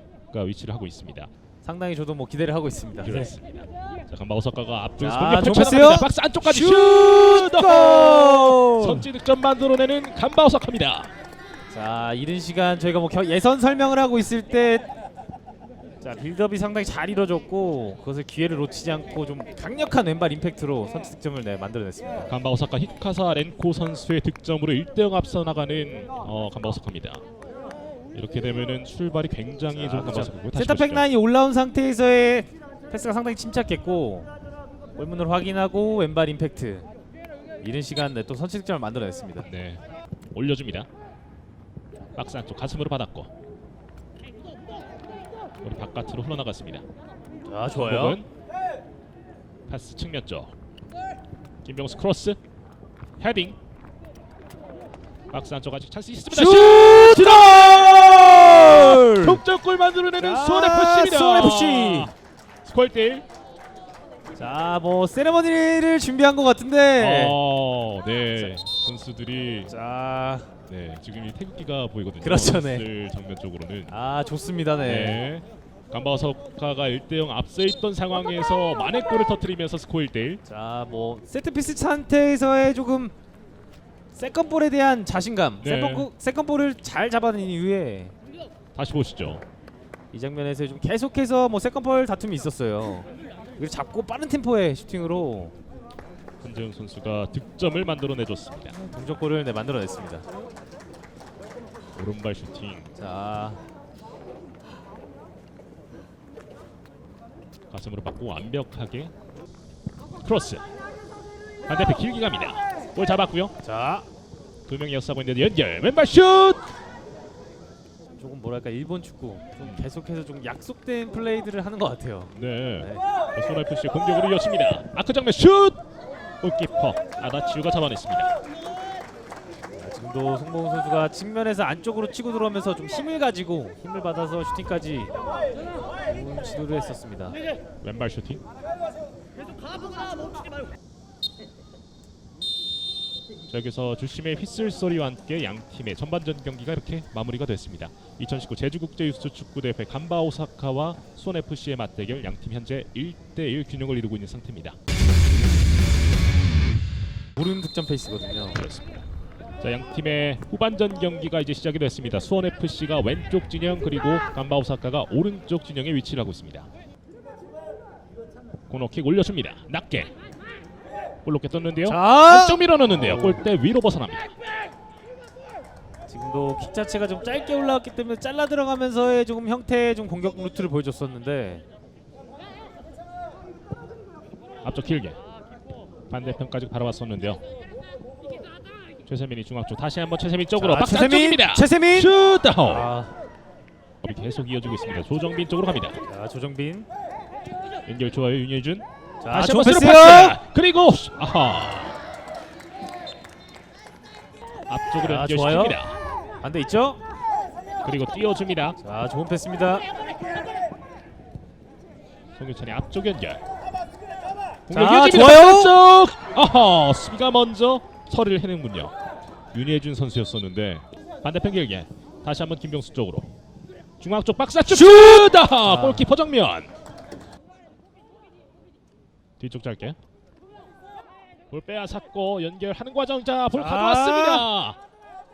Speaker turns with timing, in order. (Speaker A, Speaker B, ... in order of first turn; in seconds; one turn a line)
Speaker A: 0.3-1.3
Speaker B: 1.6-3.3
Speaker A: 3.0-11.1
Speaker B: 5.0-9.1
Speaker B: 11.7-14.9
Speaker B: 16.0-22.3
Speaker A: 22.3-27.2
Speaker A: 28.1-31.0
Speaker B: 29.7-34.3
Speaker B: 35.0-36.9
Speaker B: 37.6-39.5
Speaker A: 39.4-40.9
Speaker A: 42.1-43.3
Speaker A: 45.6-46.8
Speaker B: 47.5-48.2
Speaker A: 47.7-48.3
Speaker A: 49.7-50.5
Speaker A: 51.6-52.4
Speaker A: 53.2-53.6
Speaker A: 55.3-62.1
Speaker B: 56.3-59.4
Speaker B: 60.2-62.1
Speaker A: 62.6-63.2
Speaker B: 64.3-67.4
Speaker A: 67.0-69.7
Speaker B: 68.3-68.6
Speaker B: 69.7-70.5
Speaker A: 70.7-74.0
Speaker B: 72.2-72.8
Speaker B: 73.9-75.2
Speaker A: 74.8-80.4
Speaker B: 80.5-83.1
Speaker B: 84.1-88.1
Speaker A: 85.6-86.1
Speaker A: 88.7-89.4
Speaker B: 90.1-95.5
Speaker A: 96.4-98.8
Speaker B: 98.8-100.2
Speaker A: 101.9-102.9
Speaker B: 103.0-103.6
Speaker A: 107.7-109.1
Speaker A: 110.2-110.6
Speaker A: 111.7-113.5
Speaker B: 113.6-114.1
Speaker A: 114.7-116.7
Speaker B: 118.2-123.0
Speaker A: 119.6-119.9
Speaker A: 122.3-125.8
Speaker A: 126.4-128.3
Speaker B: 129.7-135.1
Speaker B: 136.0-137.4
Speaker A: 137.8-138.4
Speaker A: 143.5-154.8
Speaker B: 157.3-158.6
Speaker A: 158.5-159.0
Speaker A: 159.6-166.7
Speaker A: 168.7-170.1
Speaker A: 171.2-174.3
Speaker B: 171.8-173.4
Speaker B: 176.1-181.6
Speaker A: 184.6-185.2
Speaker A: 186.1-187.4
Speaker A: 189.1-192.9
Speaker B: 190.6-193.1
Speaker A: 194.0-196.0
Speaker B: 196.0-196.9
Speaker A: 197.9-201.9
Speaker B: 199.2-200.4
Speaker A: 204.7-206.0
Speaker B: 205.0-205.8
Speaker B: 206.4-207.0
Speaker A: 207.8-208.8
Speaker B: 208.8-209.9
Speaker A: 212.4-213.4
Speaker A: 214.7-218.9
Speaker B: 214.7-215.8
Speaker A: 219.5-223.3
Speaker A: 224.0-226.7
Speaker B: 225.6-226.1
Speaker A: 229.4-230.0
Speaker A: 231.5-234.8
Speaker B: 233.5-234.4